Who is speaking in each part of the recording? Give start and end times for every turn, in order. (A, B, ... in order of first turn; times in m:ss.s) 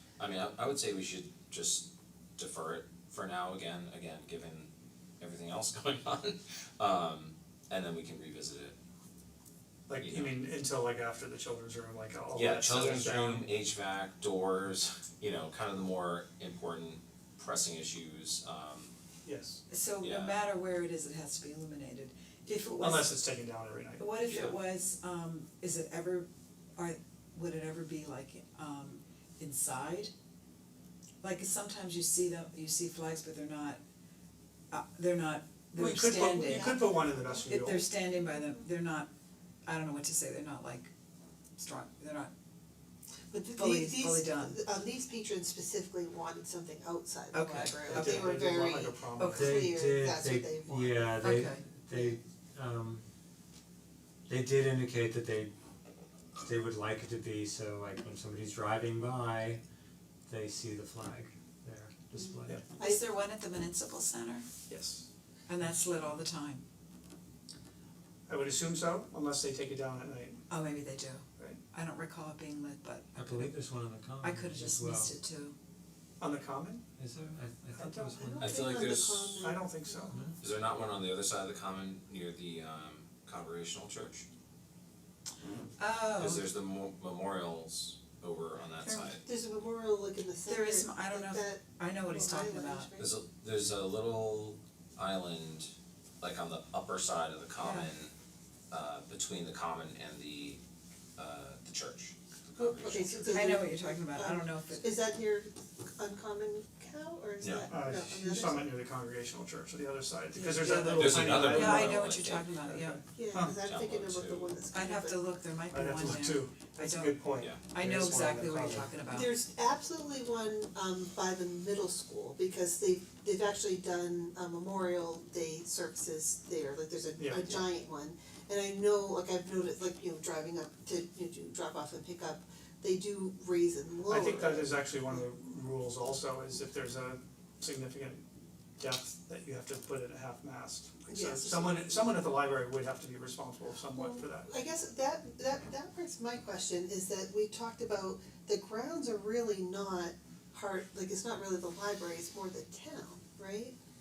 0:00.2-0:08.8 A
0:09.9-0:13.5 B
0:10.0-0:10.3 A
0:12.3-0:18.9 A
0:19.2-0:19.6 C
0:19.7-0:23.2 D
0:20.0-0:20.5 A
0:22.8-0:24.0 B
0:24.0-0:30.1 D
0:24.3-0:24.6 A
0:31.2-0:33.8 D
0:34.7-0:39.1 D
0:35.7-0:37.8 B
0:39.6-0:40.9 D
0:41.6-0:42.3 D
0:43.3-0:48.9 E
0:43.5-0:44.6 D
0:47.3-0:48.4 D
0:47.9-0:49.6 B
0:48.1-0:49.4 C
0:49.2-0:49.6 D
0:49.3-0:53.0 F
0:49.4-0:51.0 E
0:51.2-0:51.7 D
0:51.9-0:52.2 E
0:54.3-0:55.5 F
0:56.4-0:59.6 F
1:00.3-1:02.7 F
1:02.7-1:04.5 D
1:04.7-1:05.1 B
1:05.5-1:06.6 D
1:08.3-1:10.4 B
1:10.5-1:13.5 D
1:13.2-1:15.1 F
1:14.2-1:15.6 D
1:16.2-1:16.8 B
1:17.0-1:18.8 F
1:17.8-1:18.4 B
1:18.3-1:19.3 C
1:18.4-1:19.5 A
1:18.6-1:20.1 E
1:19.4-1:20.2 B
1:20.4-1:24.3 A
1:25.8-1:26.4 D
1:26.2-1:29.2 A
1:28.8-1:29.2 D
1:29.2-1:33.1 E
1:30.5-1:32.9 D
1:33.0-1:38.1 A
1:37.6-1:37.9 D
1:38.7-1:40.6 A
1:41.2-1:43.6 A
1:42.6-1:44.8 C
1:43.1-1:48.7 E
1:43.3-1:45.1 D
1:47.4-1:47.7 A
1:47.7-1:48.1 C
1:47.7-1:52.0 B
1:50.4-1:51.5 C
1:50.6-1:53.2 D
1:50.8-1:52.6 A
1:52.7-1:53.6 B
1:53.2-1:55.2 E
1:53.4-1:54.6 A
1:54.7-1:59.4 D
1:55.7-1:56.6 B
1:56.8-1:58.9 C
1:57.4-1:57.6 A
1:59.2-2:15.2 E
2:07.2-2:07.7 B
2:14.1-2:18.2 B
2:18.8-2:24.5 B
2:21.1-2:22.2 E
2:24.0-2:33.8 E